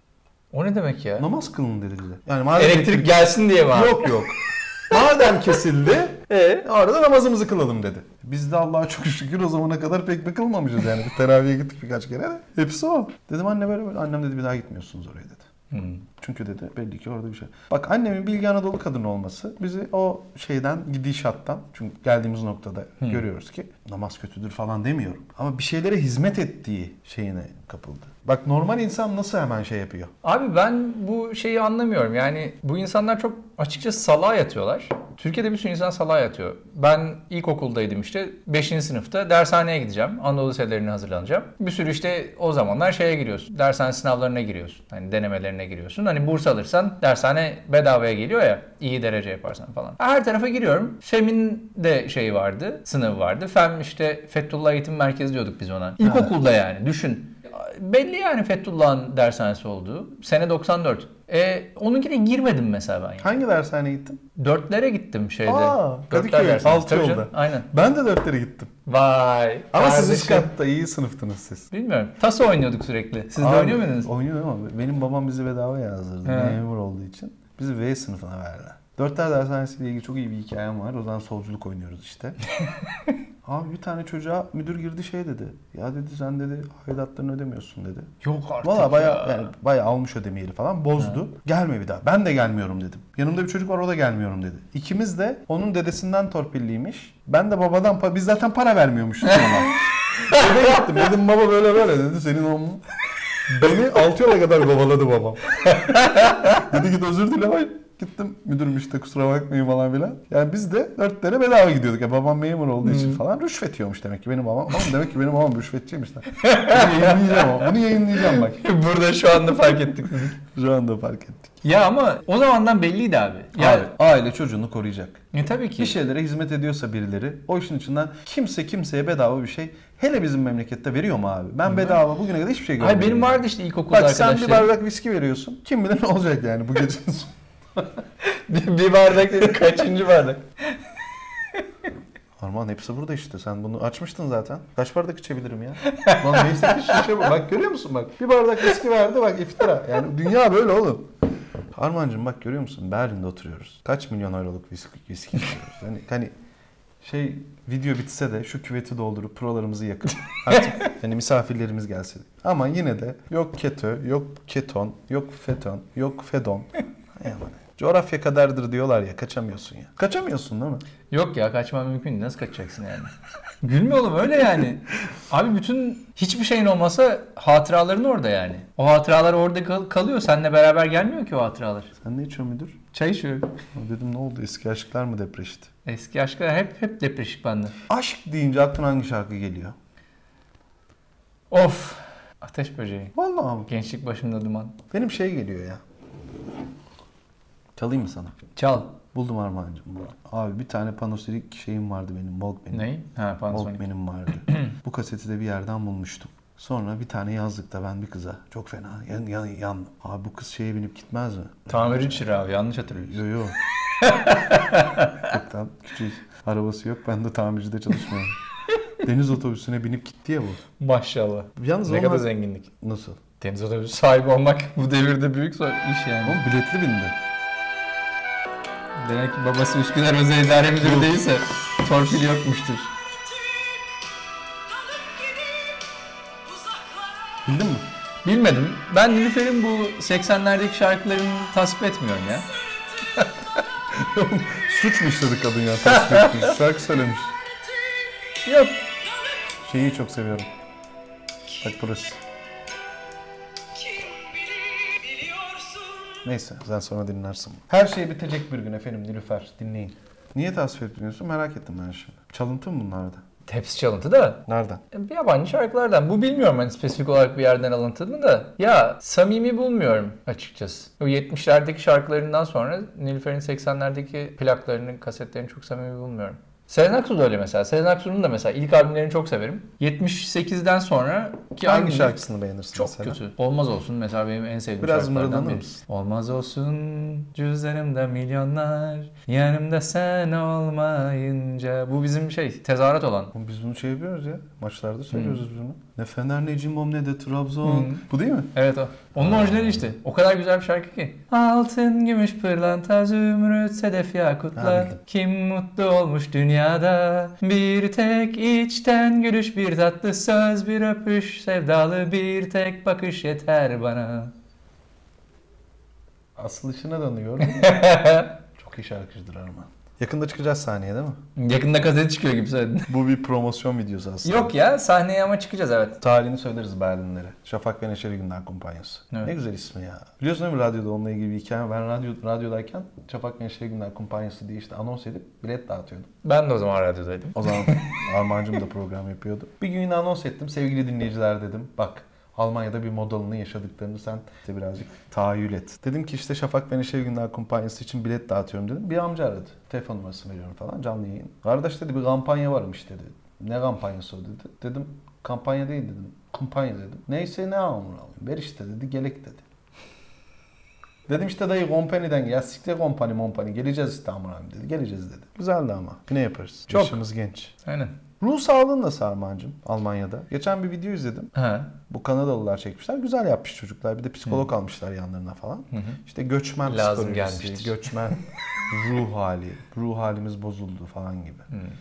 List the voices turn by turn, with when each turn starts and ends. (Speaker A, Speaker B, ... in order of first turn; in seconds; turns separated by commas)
Speaker A: 0.5-1.3, Speaker B: 1.2-15.5, Speaker A: 2.5-4.2, Speaker A: 6.3-6.7, Speaker A: 15.7-16.0, Speaker B: 16.0-30.1, Speaker A: 30.2-63.3, Speaker B: 56.0-56.3, Speaker B: 63.2-64.2, Speaker A: 64.4-67.7, Speaker B: 65.4-68.7, Speaker A: 68.8-70.5, Speaker B: 69.7-71.7, Speaker A: 71.7-74.1, Speaker B: 73.4-82.5, Speaker A: 76.2-76.6, Speaker B: 83.4-102.8, Speaker A: 88.2-89.5, Speaker B: 103.5-118.7, Speaker A: 105.9-106.4, Speaker A: 112.8-113.2, Speaker A: 116.4-120.3, Speaker B: 119.3-121.6, Speaker A: 121.6-123.9, Speaker B: 123.6-125.2, Speaker A: 125.3-126.0, Speaker B: 125.8-138.0, Speaker A: 131.7-132.0, Speaker A: 132.8-134.7, Speaker A: 138.3-140.8, Speaker B: 142.4-156.3, Speaker A: 145.9-147.0, Speaker B: 157.0-170.8, Speaker A: 160.5-160.8, Speaker A: 171.1-181.9, Speaker B: 182.0-182.8, Speaker A: 182.9-183.5, Speaker B: 183.7-185.7, Speaker A: 185.8-187.8, Speaker B: 187.9-189.7, Speaker A: 191.5-193.1, Speaker B: 193.1-193.7, Speaker A: 193.7-194.8, Speaker B: 194.9-195.8, Speaker B: 197.8-198.3, Speaker A: 198.6-198.9, Speaker B: 199.1-202.8, Speaker A: 202.7-203.8, Speaker B: 203.5-212.3, Speaker A: 204.5-204.7, Speaker A: 211.7-213.2, Speaker B: 212.9-213.6, Speaker A: 213.9-215.3, Speaker B: 215.2-218.3, Speaker B: 219.0-220.6, Speaker A: 220.8-222.7, Speaker B: 221.6-222.3, Speaker B: 222.8-223.2, Speaker A: 223.4-226.4, Speaker B: 226.2-227.1, Speaker A: 229.0-232.9, Speaker B: 230.8-231.1, Speaker A: 234.7-235.9, Speaker A: 236.4-237.4, Speaker B: 237.4-237.8, Speaker A: 238.2-243.3, Speaker B: 243.9-247.3, Speaker A: 245.8-246.5, Speaker A: 248.4-249.0, Speaker B: 249.6-250.5, Speaker B: 251.6-252.2, Speaker A: 253.8-256.2, Speaker B: 256.2-263.2, Speaker A: 263.5-293.3, Speaker B: 264.5-264.8, Speaker B: 281.6-283.2, Speaker B: 284.8-285.8, Speaker B: 293.3-298.5, Speaker A: 295.1-295.4, Speaker A: 297.6-314.3, Speaker B: 299.1-299.8, Speaker B: 304.6-305.0, Speaker B: 316.4-318.0, Speaker A: 317.4-318.3, Speaker B: 318.6-321.2, Speaker A: 321.4-322.9, Speaker B: 322.9-324.5, Speaker A: 324.2-326.0, Speaker B: 326.0-336.1, Speaker A: 336.2-337.9, Speaker B: 337.3-359.4, Speaker B: 361.1-367.5, Speaker A: 366.7-367.0, Speaker A: 367.6-367.9, Speaker B: 368.2-371.3, Speaker A: 371.3-371.7, Speaker B: 371.9-381.5, Speaker A: 375.7-376.0, Speaker A: 376.6-377.8